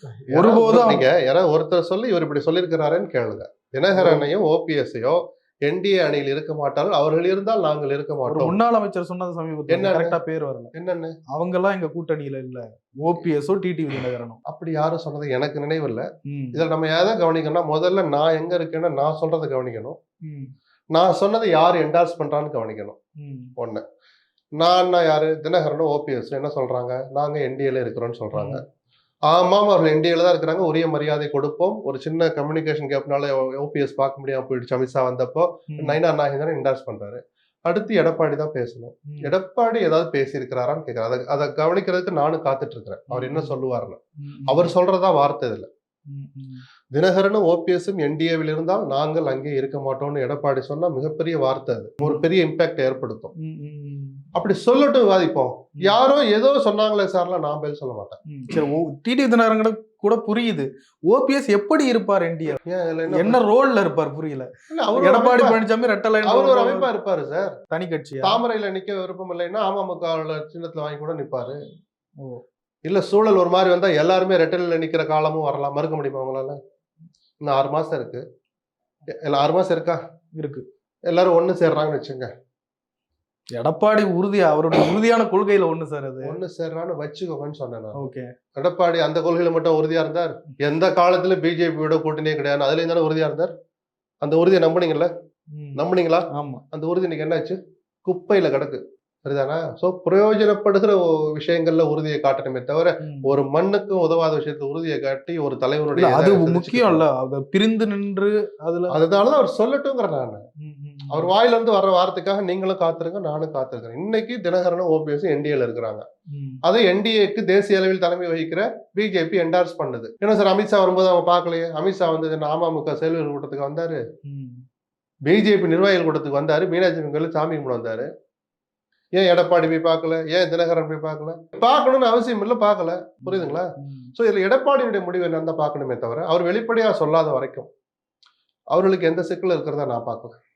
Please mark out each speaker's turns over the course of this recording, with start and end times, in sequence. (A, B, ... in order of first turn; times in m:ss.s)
0:00.3-0:08.6 A
0:00.3-0:01.0 B
0:03.9-0:04.3 B
0:08.2-0:10.7 B
0:09.7-0:10.2 A
0:10.7-0:11.2 A
0:11.3-0:14.4 B
0:14.5-0:20.0 A
0:16.3-0:16.6 B
0:20.3-0:20.5 B
0:20.9-0:23.0 A
0:23.2-0:23.5 B
0:23.6-0:23.8 A
0:24.6-0:28.6 A
0:28.3-0:28.6 B
0:29.3-0:45.7 A
0:35.7-0:36.0 B
0:43.1-0:43.5 B
0:44.2-0:44.7 B
0:46.1-0:46.6 B
0:46.9-0:53.3 A
0:53.4-0:54.2 B
0:54.3-0:58.2 A
0:58.3-1:06.9 B
1:02.6-1:03.4 A
1:04.7-1:05.6 A
1:06.2-1:07.5 A
1:07.7-1:08.4 B
1:08.2-1:11.6 A
1:12.8-1:16.6 A
1:17.4-1:18.2 A
1:19.2-1:20.0 A
1:20.4-1:20.6 B
1:21.1-1:22.3 A
1:23.5-1:26.4 B
1:26.2-1:28.0 A
1:28.0-1:28.3 B
1:28.6-1:33.5 A
1:34.2-1:35.1 A
1:35.5-1:35.8 B
1:35.8-1:47.0 A
1:36.3-1:36.6 B
1:43.0-1:43.3 B
1:45.9-1:49.0 B
1:48.9-1:50.4 A
1:50.6-1:51.3 B
1:51.1-1:56.0 A
1:56.3-1:56.6 B
1:56.6-2:04.0 A
2:04.2-2:04.6 B
2:05.3-2:08.1 A
2:09.2-2:17.7 A
2:13.2-2:14.1 B
2:18.7-2:20.4 A